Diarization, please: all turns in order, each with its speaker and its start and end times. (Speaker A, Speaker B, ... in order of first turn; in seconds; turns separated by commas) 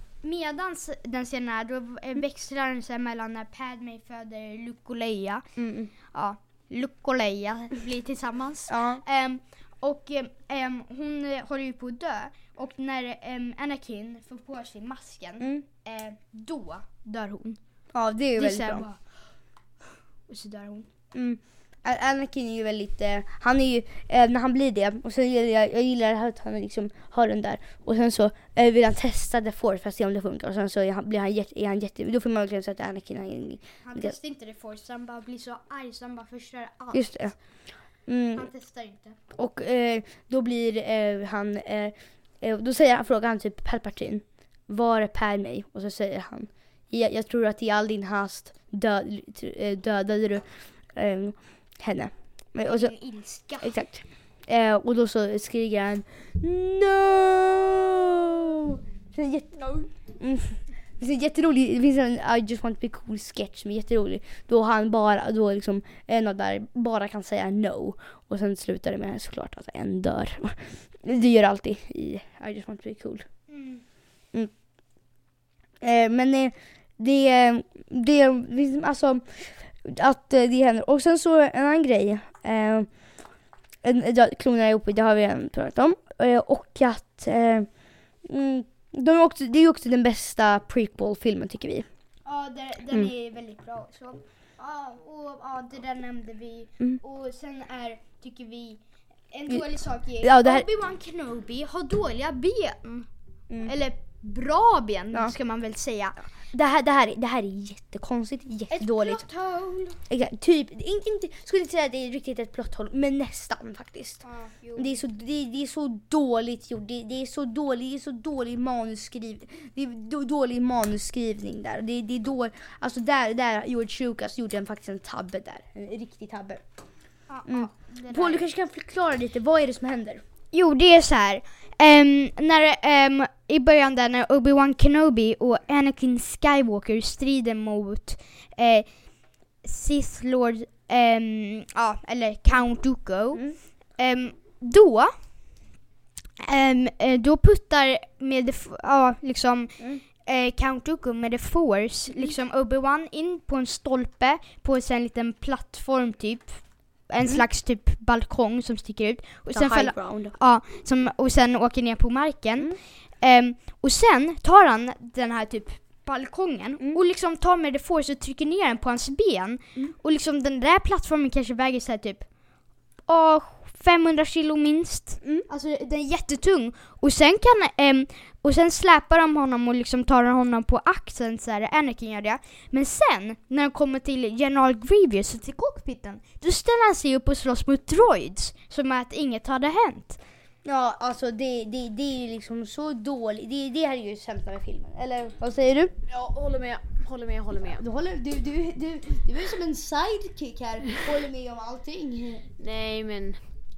Speaker A: 0.2-5.4, Speaker B: 5.6-5.9, Speaker A: 6.1-17.6, Speaker B: 8.7-9.0, Speaker B: 15.4-15.6, Speaker B: 17.9-18.8, Speaker A: 18.3-19.0, Speaker A: 20.3-20.9, Speaker B: 21.1-34.1, Speaker A: 33.8-37.3, Speaker B: 36.9-37.3, Speaker B: 38.1-38.5, Speaker A: 38.3-39.2, Speaker B: 39.3-52.9, Speaker A: 52.6-53.8, Speaker B: 53.6-59.6, Speaker A: 59.5-59.9, Speaker B: 60.1-73.2, Speaker A: 73.5-73.8, Speaker B: 75.8-82.9, Speaker B: 83.8-87.7, Speaker B: 88.2-91.9, Speaker A: 92.2-103.1, Speaker B: 100.2-100.7, Speaker A: 103.6-106.2, Speaker B: 106.5-109.2, Speaker A: 108.7-110.0, Speaker B: 110.1-114.2, Speaker A: 114.2-115.0, Speaker B: 114.8-126.6, Speaker A: 127.3-128.4, Speaker B: 127.5-130.2, Speaker A: 130.5-138.9, Speaker A: 139.6-145.1, Speaker A: 146.4-172.3, Speaker B: 159.5-160.3, Speaker A: 173.1-190.2, Speaker B: 190.6-195.9, Speaker C: 196.1-197.8, Speaker B: 197.7-202.5, Speaker C: 202.6-203.4